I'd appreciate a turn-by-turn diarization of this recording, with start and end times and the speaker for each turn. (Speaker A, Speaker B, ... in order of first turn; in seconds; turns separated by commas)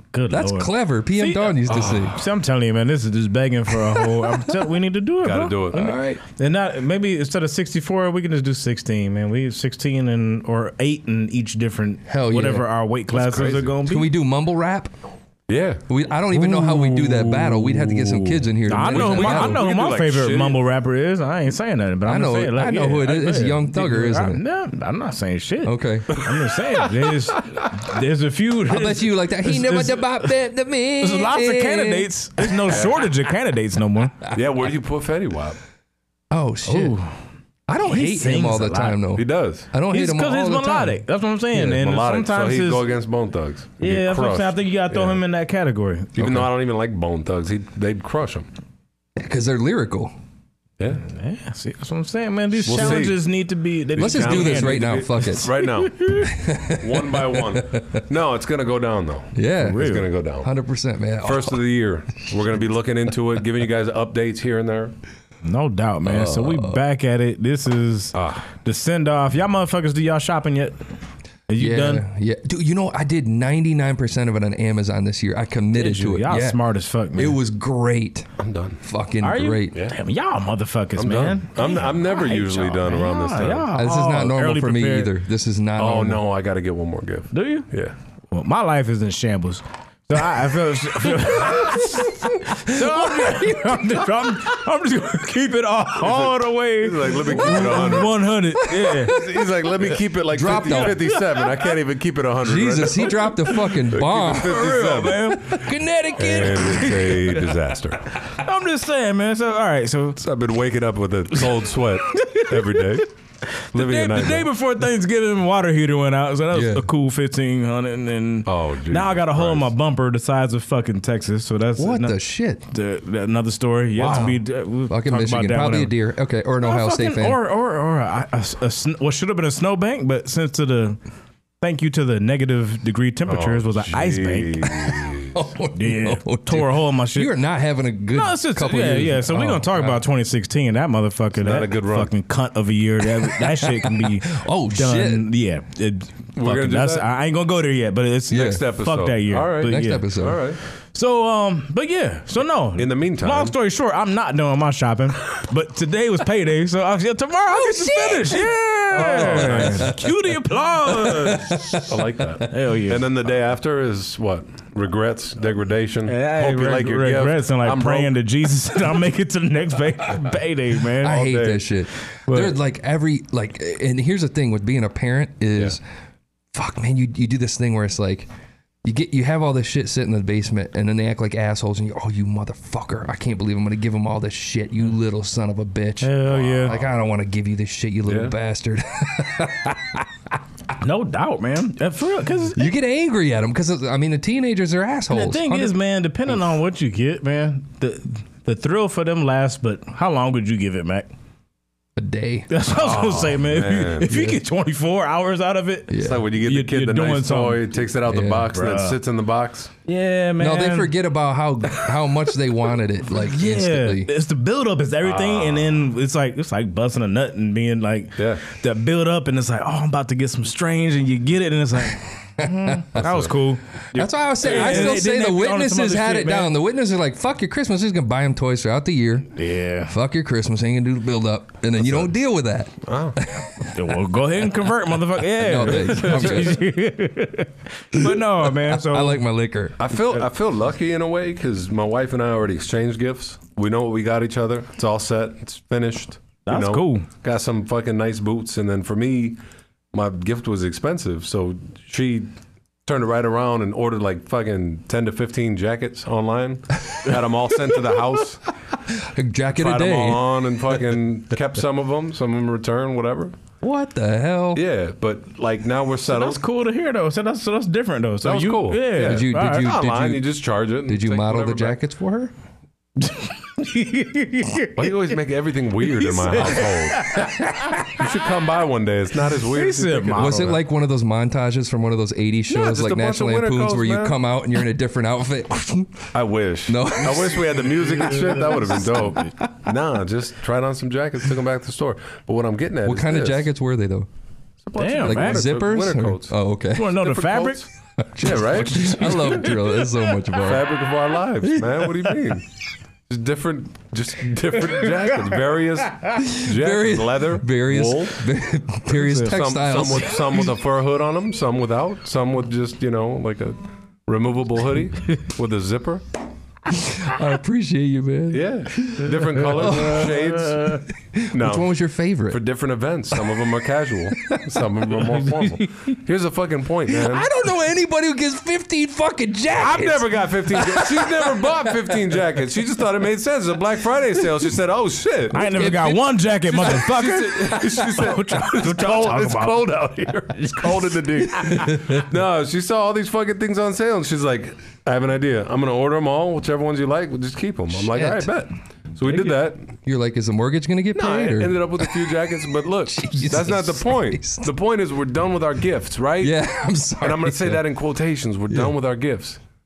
Speaker A: 0.1-1.6, Speaker B: 0.3-2.1, Speaker C: 1.7-2.1, Speaker A: 2.1-14.1, Speaker C: 5.2-5.9, Speaker B: 5.7-6.2, Speaker B: 12.1-12.7, Speaker C: 13.1-13.8, Speaker B: 13.8-14.9, Speaker C: 15.5-15.9, Speaker B: 15.9-19.6, Speaker A: 16.4-17.3, Speaker C: 16.4-20.6, Speaker A: 18.7-30.3, Speaker B: 22.1-24.4, Speaker B: 25.6-26.2, Speaker B: 28.7-32.7, Speaker A: 31.0-34.2, Speaker C: 32.7-33.0, Speaker C: 34.3-35.6, Speaker B: 36.3-37.0, Speaker A: 36.6-37.1, Speaker B: 37.7-41.0, Speaker A: 37.8-39.0, Speaker C: 39.1-39.7, Speaker A: 39.9-42.9, Speaker C: 41.5-45.2, Speaker A: 43.8-46.5, Speaker C: 46.2-48.5, Speaker B: 49.2-50.1, Speaker A: 51.0-56.3, Speaker C: 52.6-53.2, Speaker C: 54.0-56.0, Speaker B: 54.0-55.5, Speaker B: 56.2-58.0, Speaker C: 56.8-60.5, Speaker B: 59.4-61.6, Speaker A: 59.6-60.1, Speaker C: 61.2-64.9, Speaker A: 65.4-70.8, Speaker B: 66.1-66.8, Speaker C: 68.1-68.4, Speaker A: 71.5-72.0, Speaker B: 71.6-76.6, Speaker A: 75.7-77.4, Speaker B: 77.2-78.3, Speaker C: 78.4-78.8, Speaker B: 78.8-79.8, Speaker A: 79.2-85.1, Speaker C: 81.0-83.7, Speaker B: 83.7-86.2, Speaker C: 85.8-87.9, Speaker A: 87.3-87.7, Speaker A: 88.3-99.2, Speaker B: 91.5-94.0, Speaker C: 96.0-98.2, Speaker C: 99.1-105.4, Speaker B: 100.3-101.5, Speaker B: 102.4-107.2, Speaker A: 104.2-105.6, Speaker C: 106.2-108.1, Speaker A: 108.4-110.2, Speaker C: 110.2-113.1, Speaker A: 112.1-112.8, Speaker A: 113.7-122.2, Speaker C: 113.7-114.5, Speaker B: 116.5-116.9, Speaker C: 118.5-119.7, Speaker B: 121.8-122.6, Speaker A: 122.7-125.9, Speaker B: 124.0-127.4, Speaker A: 126.6-131.0, Speaker A: 131.6-134.7, Speaker C: 133.3-135.4, Speaker B: 135.3-140.0, Speaker A: 135.8-137.3, Speaker A: 138.1-150.1, Speaker C: 141.4-142.1, Speaker B: 143.8-145.3, Speaker C: 146.4-147.1, Speaker B: 148.3-148.6, Speaker C: 148.3-150.6, Speaker B: 149.6-150.4, Speaker A: 150.9-161.8, Speaker C: 152.8-153.5, Speaker B: 157.5-159.9, Speaker C: 158.9-159.9, Speaker B: 161.0-161.9, Speaker C: 161.9-168.1, Speaker A: 162.4-163.0, Speaker A: 166.1-171.6, Speaker B: 171.0-175.8, Speaker C: 171.3-171.6, Speaker A: 172.3-172.6, Speaker B: 176.5-178.3, Speaker B: 178.8-190.1, Speaker A: 186.0-186.8, Speaker C: 186.3-186.9, Speaker C: 188.1-188.3, Speaker A: 190.8-192.7, Speaker B: 192.6-195.8, Speaker A: 195.1-201.1, Speaker B: 201.9-202.5, Speaker A: 202.5-207.8, Speaker C: 202.7-204.1, Speaker B: 204.1-204.4, Speaker B: 205.9-206.2, Speaker C: 205.9-209.7, Speaker B: 208.1-208.5, Speaker A: 208.5-209.0, Speaker A: 209.9-210.9, Speaker B: 210.4-214.1, Speaker A: 213.1-226.5, Speaker C: 215.0-215.8, Speaker C: 218.2-218.4, Speaker B: 222.4-222.8, Speaker C: 223.0-223.3, Speaker B: 223.9-229.3, Speaker C: 224.5-224.8, Speaker A: 229.4-229.9, Speaker B: 229.9-233.7, Speaker C: 231.8-232.1, Speaker C: 232.9-233.2, Speaker A: 233.7-239.2, Speaker B: 235.4-236.6, Speaker C: 235.7-236.5, Speaker B: 237.9-239.8, Speaker C: 239.8-249.4, Speaker A: 246.4-247.1, Speaker C: 249.9-252.3, Speaker C: 252.9-258.4, Speaker B: 258.9-260.4, Speaker C: 259.6-263.4, Speaker B: 263.6-264.6, Speaker C: 264.6-266.4, Speaker A: 266.1-269.7, Speaker C: 268.2-271.8, Speaker B: 268.9-272.3, Speaker A: 273.0-275.1, Speaker C: 274.8-277.3, Speaker A: 275.9-278.0, Speaker C: 277.9-280.6, Speaker A: 279.5-280.6, Speaker B: 280.2-286.1, Speaker C: 282.5-284.2, Speaker C: 286.1-293.5, Speaker B: 286.7-287.7, Speaker A: 287.8-289.3, Speaker B: 292.8-294.1, Speaker C: 294.6-296.4, Speaker A: 294.8-295.6, Speaker B: 295.0-296.9, Speaker A: 296.8-297.7, Speaker C: 296.9-297.7, Speaker B: 298.0-300.7, Speaker C: 298.2-299.5, Speaker A: 298.5-300.1, Speaker C: 300.4-302.4, Speaker C: 303.1-308.3, Speaker B: 306.2-310.5, Speaker A: 308.9-309.4, Speaker C: 309.2-316.0, Speaker B: 316.7-320.3, Speaker C: 318.3-327.3, Speaker A: 319.6-320.0, Speaker B: 321.1-322.4, Speaker B: 324.1-324.4, Speaker A: 325.1-325.9, Speaker B: 326.9-332.0, Speaker C: 329.6-335.7, Speaker A: 335.3-339.8, Speaker B: 335.5-336.8, Speaker C: 336.6-349.7, Speaker A: 340.3-341.8, Speaker B: 341.7-342.0, Speaker B: 347.7-348.3, Speaker B: 349.8-352.3, Speaker C: 350.9-356.4, Speaker B: 352.9-354.5, Speaker B: 356.2-357.6, Speaker C: 357.0-359.4